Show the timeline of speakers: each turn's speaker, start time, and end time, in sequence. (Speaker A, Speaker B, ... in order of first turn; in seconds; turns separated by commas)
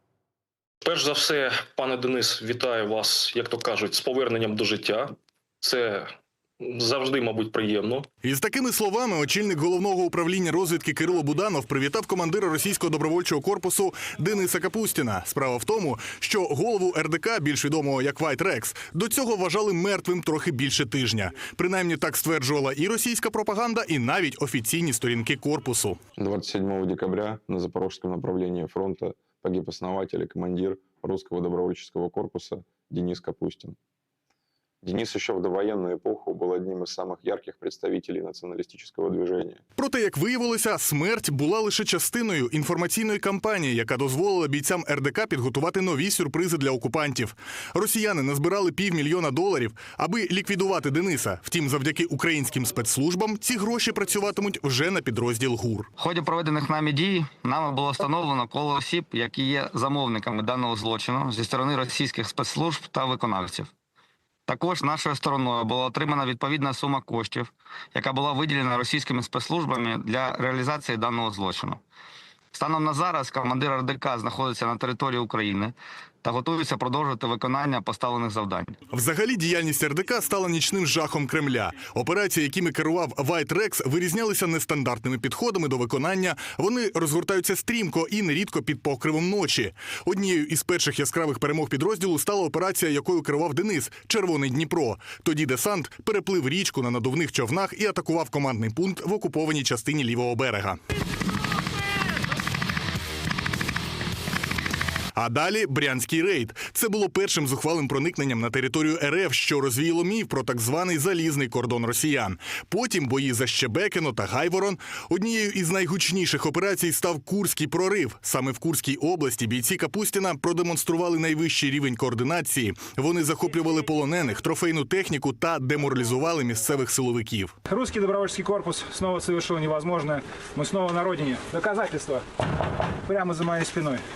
Speaker A: 0.8-6.1, Speaker A: 6.6-8.1, Speaker B: 8.2-26.0, Speaker C: 26.2-33.8, Speaker C: 34.8-39.6, Speaker B: 39.8-55.9, Speaker D: 56.0-63.7, Speaker D: 64.5-71.8, Speaker D: 72.5-78.7, Speaker B: 78.9-100.8, Speaker B: 105.2-127.5, Speaker E: 127.7-132.2, Speaker E: 133.1-134.0